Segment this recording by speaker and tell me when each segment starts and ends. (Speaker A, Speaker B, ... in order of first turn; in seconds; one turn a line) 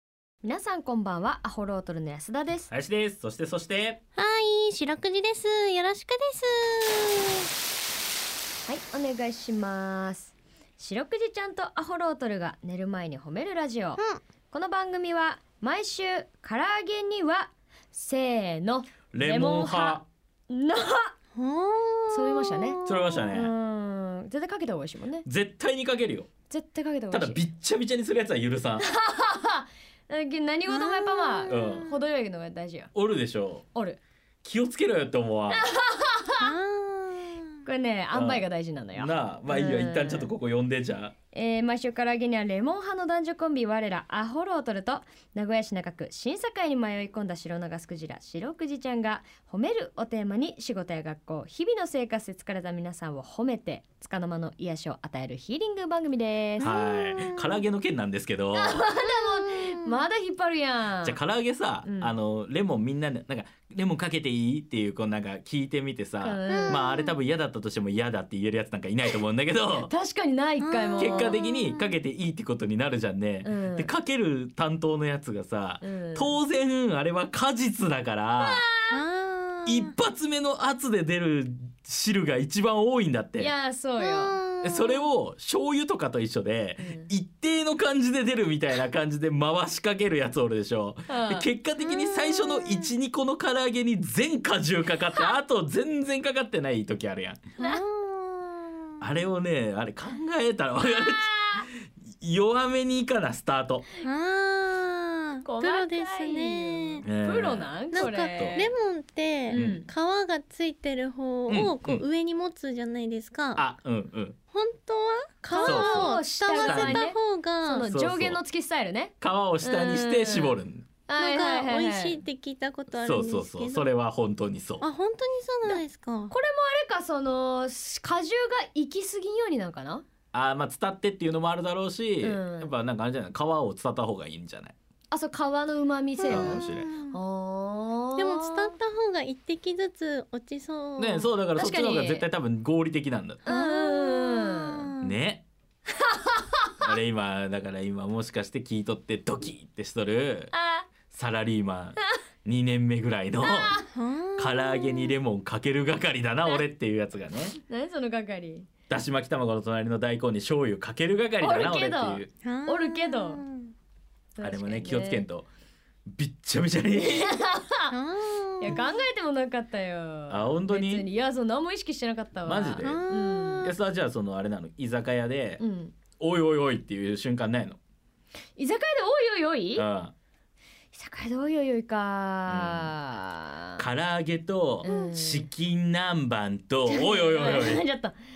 Speaker A: 0.4-2.7
Speaker B: 2.7-4.0
Speaker C: 4.2-7.5
Speaker A: 8.7-14.0
Speaker A: 14.5-21.1
Speaker B: 19.1-20.1
Speaker C: 21.4-23.3
Speaker A: 22.1-25.3
Speaker B: 22.9-23.5
Speaker B: 25.2-26.3
Speaker A: 26.5-27.4
Speaker B: 27.1-28.9
Speaker A: 28.8-32.9
Speaker C: 30.7-31.8
Speaker B: 31.5-31.9
Speaker B: 32.9-33.6
Speaker B: 34.4-35.7
Speaker A: 35.5-36.5
Speaker C: 36.4-37.5
Speaker A: 37.6-40.3
Speaker B: 38.1-38.4
Speaker B: 39.0-41.1
Speaker A: 41.3-56.7
Speaker C: 56.6-57.6
Speaker B: 56.6-58.8
Speaker A: 58.5-61.2
Speaker C: 59.1-59.9
Speaker B: 61.0-69.9
Speaker A: 61.8-62.1
Speaker A: 66.2-66.8
Speaker C: 66.5-67.1
Speaker A: 69.7-71.4
Speaker C: 70.6-72.0
Speaker B: 71.0-78.7
Speaker A: 73.4-73.9
Speaker A: 75.8-76.4
Speaker A: 78.4-79.0
Speaker C: 78.9-79.9
Speaker B: 79.7-83.5
Speaker A: 83.4-84.3
Speaker C: 84.0-85.1
Speaker B: 84.6-97.4
Speaker A: 86.8-87.1
Speaker A: 91.1-91.5
Speaker C: 91.8-92.9
Speaker C: 97.6-98.9
Speaker B: 99.0-103.8
Speaker A: 100.8-101.7
Speaker C: 104.0-107.0
Speaker A: 105.4-108.7
Speaker B: 107.0-108.6
Speaker C: 107.9-113.6
Speaker A: 109.5-109.9
Speaker B: 109.5-109.8
Speaker B: 111.5-112.0
Speaker B: 113.5-114.3
Speaker C: 114.5-117.9
Speaker A: 115.5-120.6
Speaker B: 115.6-117.0
Speaker B: 117.9-118.4
Speaker B: 119.2-120.8
Speaker A: 121.1-122.2
Speaker C: 121.2-123.9
Speaker B: 123.0-124.9
Speaker C: 124.8-126.3
Speaker A: 125.7-130.1
Speaker B: 130.3-134.7
Speaker A: 132.2-132.7
Speaker A: 135.1-138.7
Speaker C: 136.2-137.2
Speaker B: 136.3-136.9
Speaker C: 138.2-141.3
Speaker B: 141.0-143.4
Speaker A: 141.6-142.2
Speaker A: 143.4-144.9
Speaker C: 143.5-145.1
Speaker B: 145.0-145.4
Speaker A: 145.9-146.7
Speaker B: 146.8-150.5
Speaker A: 150.5-150.9
Speaker B: 151.1-153.8
Speaker A: 153.4-153.8
Speaker C: 153.9-155.2
Speaker B: 154.4-157.6
Speaker A: 157.6-158.7
Speaker B: 158.9-162.3
Speaker A: 161.4-163.4
Speaker C: 162.4-163.7
Speaker A: 164.4-165.2
Speaker B: 164.4-165.5
Speaker B: 166.1-167.3
Speaker A: 167.0-167.9
Speaker C: 167.9-168.8
Speaker A: 168.6-173.7
Speaker B: 170.3-171.1
Speaker B: 172.5-173.0
Speaker C: 172.8-173.7
Speaker B: 173.6-175.6
Speaker A: 175.6-175.9
Speaker B: 176.2-177.8
Speaker A: 178.6-179.9
Speaker B: 179.8-180.1
Speaker A: 180.9-183.8
Speaker B: 182.5-182.9
Speaker B: 183.8-187.8
Speaker A: 184.8-185.5
Speaker A: 186.9-188.2